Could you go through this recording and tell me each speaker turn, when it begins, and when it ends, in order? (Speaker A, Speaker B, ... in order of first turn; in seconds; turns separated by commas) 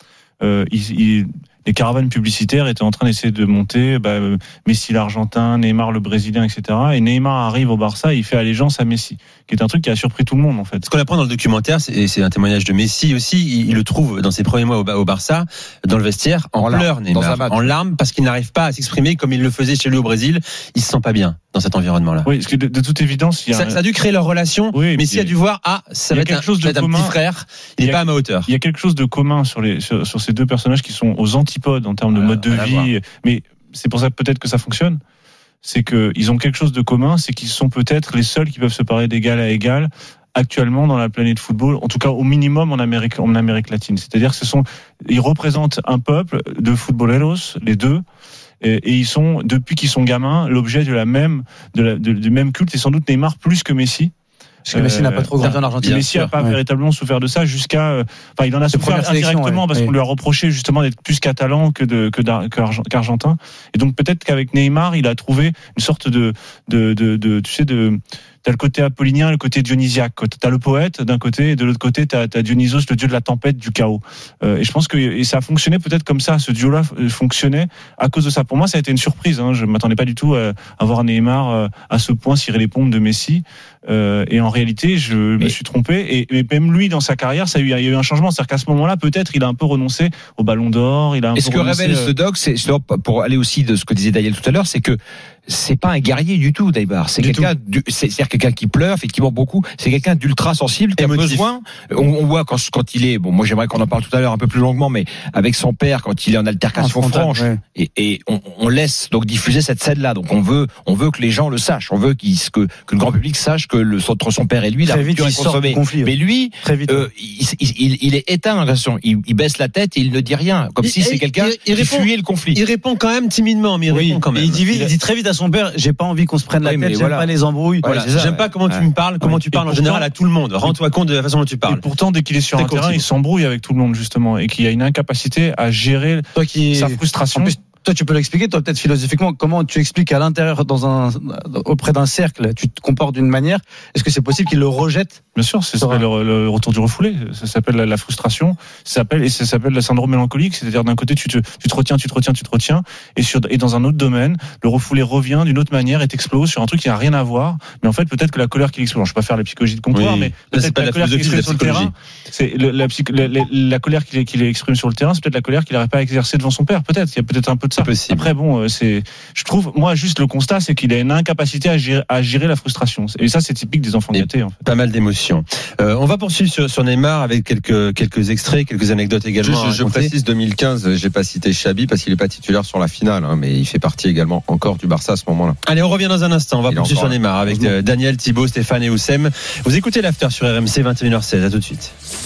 Speaker A: 0.4-10.8, Speaker B: 10.8-22.3, Speaker C: 16.6-17.7, Speaker A: 22.2-23.8, Speaker B: 23.5-28.5, Speaker A: 24.7-25.4, Speaker A: 26.1-27.2, Speaker A: 27.8-35.0, Speaker B: 32.1-32.9, Speaker A: 35.6-48.0, Speaker A: 48.6-54.1, Speaker D: 54.7-56.5, Speaker A: 54.7-92.1, Speaker B: 55.4-56.3, Speaker D: 58.7-59.9, Speaker C: 91.3-122.6, Speaker D: 97.2-97.5, Speaker B: 101.0-101.5, Speaker D: 106.8-107.6, Speaker D: 114.8-117.1, Speaker B: 120.8-124.9, Speaker D: 123.9-128.2, Speaker C: 126.6-127.3, Speaker C: 127.8-128.8, Speaker B: 127.8-131.8, Speaker A: 129.5-130.1, Speaker A: 131.7-137.6, Speaker B: 132.5-133.0, Speaker D: 136.3-145.2, Speaker A: 145.3-174.6, Speaker D: 145.8-146.0, Speaker B: 159.9-161.9, Speaker B: 167.8-168.3, Speaker B: 174.1-180.1, Speaker E: 179.4-185.6, Speaker B: 185.6-191.9, Speaker E: 186.7-187.8